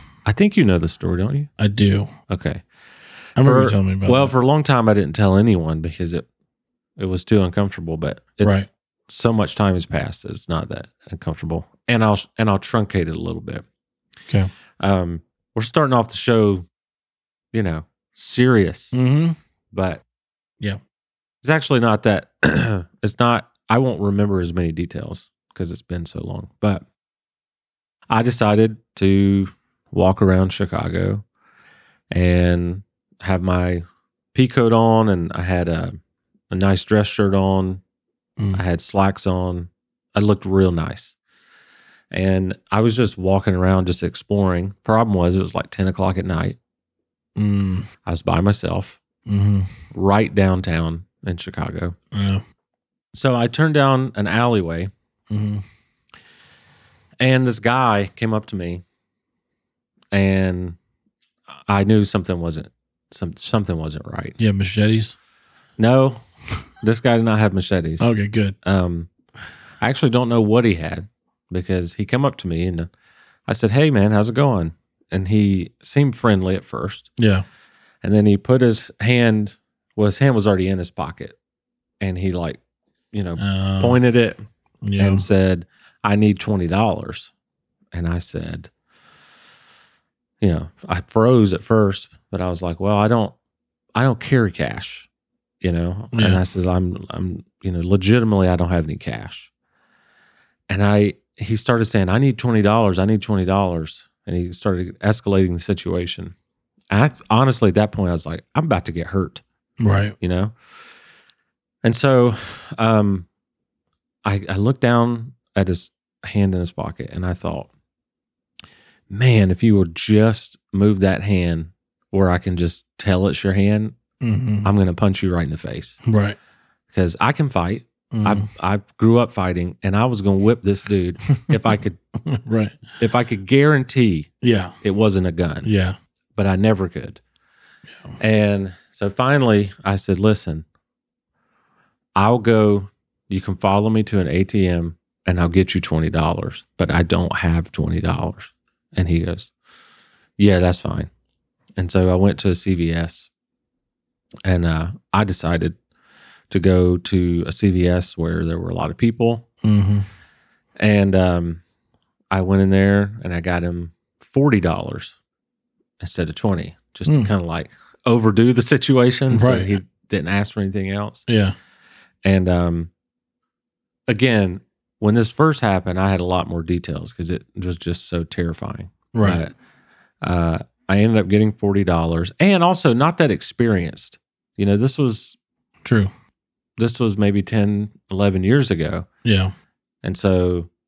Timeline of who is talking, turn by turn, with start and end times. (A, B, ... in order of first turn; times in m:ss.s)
0:00.2-0:01.5 A
0:01.6-0:02.1 B
0:02.3-0:02.6 A
0:03.4-0:04.3 B
0:03.4-0:06.3 A
0:07.0-0:13.6 A
0:08.4-0:08.7 B
0:14.8-0:16.7 A
0:17.5-0:19.0 A
0:18.9-0:19.4 B
0:19.7-0:20.0 A
0:21.4-0:26.8 A
0:28.1-0:31.2 A
0:32.1-0:36.0 A
0:36.5-0:37.8 A
0:38.5-0:41.2 A
0:42.1-0:46.6 A
0:47.4-0:47.9 B
0:48.1-0:49.0 A
0:49.3-0:49.7 B
0:49.9-0:52.0 A
0:52.1-0:52.4 B
0:53.1-0:54.9 A
0:55.3-0:55.6 B
0:57.2-0:58.8 A
1:00.1-1:00.8 A
1:01.5-1:04.4 A
1:04.4-1:05.2 B
1:05.8-1:06.2 A
1:06.8-1:09.1 A
1:08.0-1:08.6 B
1:09.8-1:12.9 A
1:13.5-1:17.1 A
1:17.2-1:17.4 B
1:18.0-1:21.4 A
1:22.0-1:22.6 A
1:23.1-1:24.4 A
1:23.4-1:24.0 B
1:24.8-1:25.2 B
1:25.0-1:27.3 A
1:27.9-1:28.7 A
1:30.4-1:33.4 A
1:34.0-1:35.1 A
1:35.6-1:39.5 A
1:36.1-1:36.4 B
1:40.7-1:46.3 A
1:46.9-1:49.4 A
1:49.8-1:50.2 B
1:50.2-1:50.5 A
1:51.8-1:53.3 A
1:54.2-1:57.7 A
1:59.1-2:04.0 A
2:04.2-2:04.7 B
2:04.6-2:06.0 A
2:06.0-2:06.4 B
2:06.9-2:12.0 A
2:08.1-2:08.5 B
2:12.2-2:12.8 B
2:13.0-2:14.3 A
2:14.4-2:14.8 B
2:14.8-2:15.7 A
2:15.6-2:16.0 B
2:16.4-2:17.2 A
2:18.2-2:20.6 A
2:22.2-2:29.5 A
2:30.4-2:31.1 A
2:31.8-2:33.3 A
2:34.4-2:35.8 A
2:36.5-2:39.5 A
2:39.6-2:40.1 B
2:40.8-2:41.6 A
2:42.3-2:45.1 A
2:46.0-2:51.2 A
2:47.1-2:47.3 B
2:49.3-2:49.7 B
2:51.3-2:51.6 B
2:52.2-2:52.9 A
2:54.1-2:59.5 A
2:59.1-2:59.4 B
3:00.2-3:05.4 A
3:05.8-3:06.1 B
3:06.8-3:09.1 A
3:09.2-3:09.5 B
3:10.0-3:10.7 A